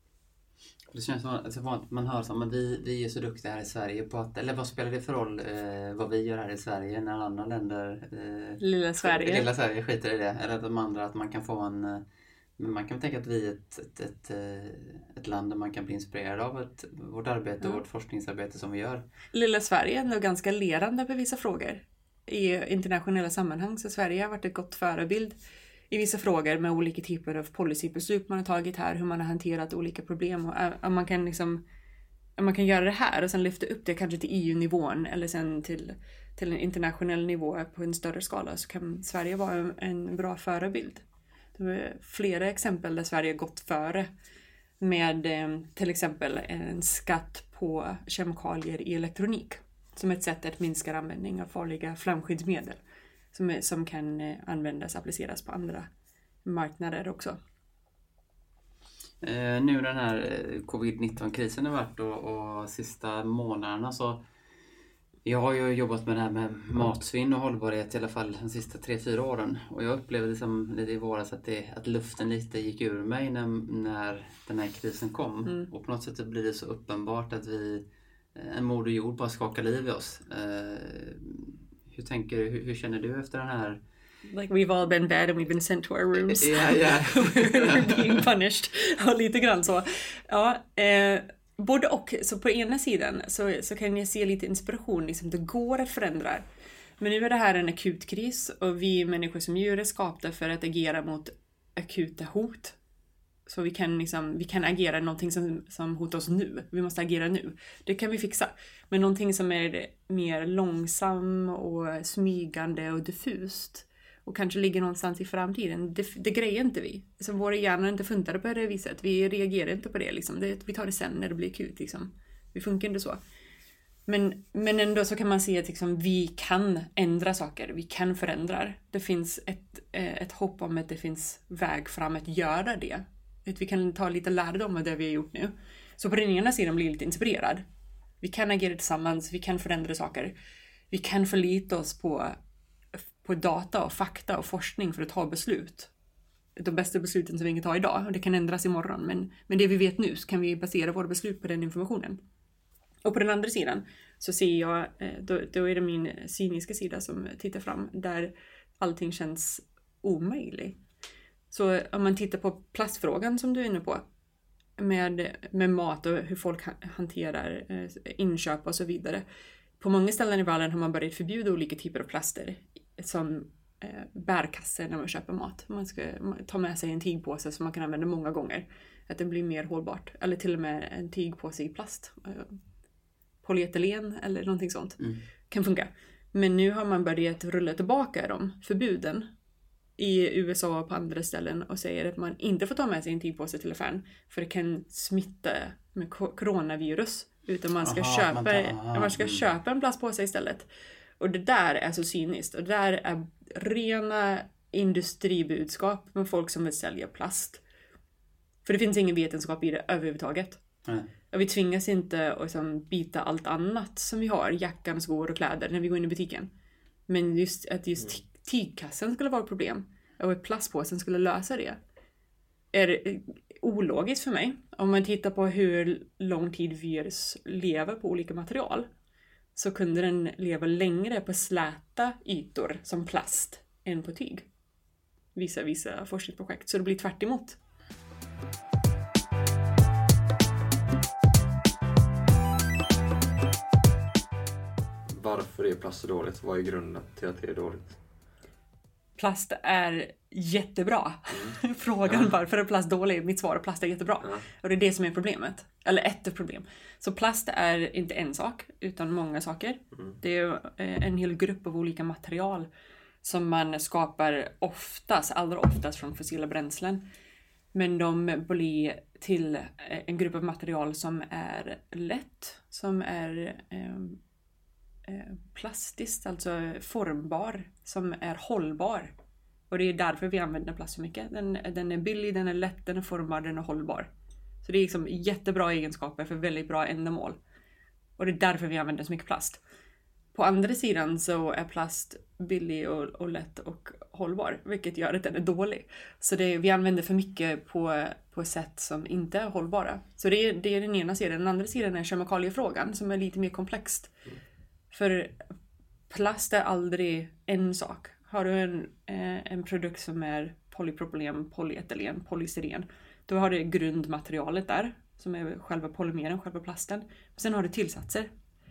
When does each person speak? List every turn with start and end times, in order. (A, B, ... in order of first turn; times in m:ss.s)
0:00.9-0:12.0 A
0:08.6-0:09.5 B
0:12.6-0:19.0 A
0:19.3-0:25.4 B
0:25.9-0:31.6 B
0:32.4-0:41.0 B
0:41.5-0:44.1 B
0:44.8-0:52.8 B
0:53.3-0:55.9 B
0:56.4-0:57.4 B
0:59.2-1:04.2 A
1:05.2-1:23.8 A
1:24.3-1:36.4 B
1:26.3-1:28.2 A
1:37.0-1:42.8 B
1:43.5-2:03.2 B
2:04.1-2:17.6 B
2:18.2-2:20.3 B
2:20.9-2:22.4 B
2:23.2-2:25.9 B
2:26.6-2:32.2 B
2:33.0-2:40.8 B
2:41.5-2:44.0 B
2:44.8-2:49.2 B
2:49.8-3:02.6 B
3:03.4-3:09.3 B
3:10.0-3:20.7 B
3:17.8-3:19.4 A
3:21.2-3:27.6 B
3:28.6-3:30.6 B
3:31.3-3:36.5 B
3:37.1-3:41.8 B
3:42.7-3:48.9 B
3:49.5-3:54.5 B
3:55.3-3:57.6 B
4:05.1-4:08.0 C
4:09.2-4:22.7 B
4:23.2-4:27.0 B
4:27.7-4:34.2 B
4:35.0-4:39.1 B
4:39.7-4:44.1 B
4:44.6-4:47.4 B
4:48.2-4:49.6 B
4:50.3-5:04.1 B
5:04.9-5:05.4 B
5:06.1-5:18.3 B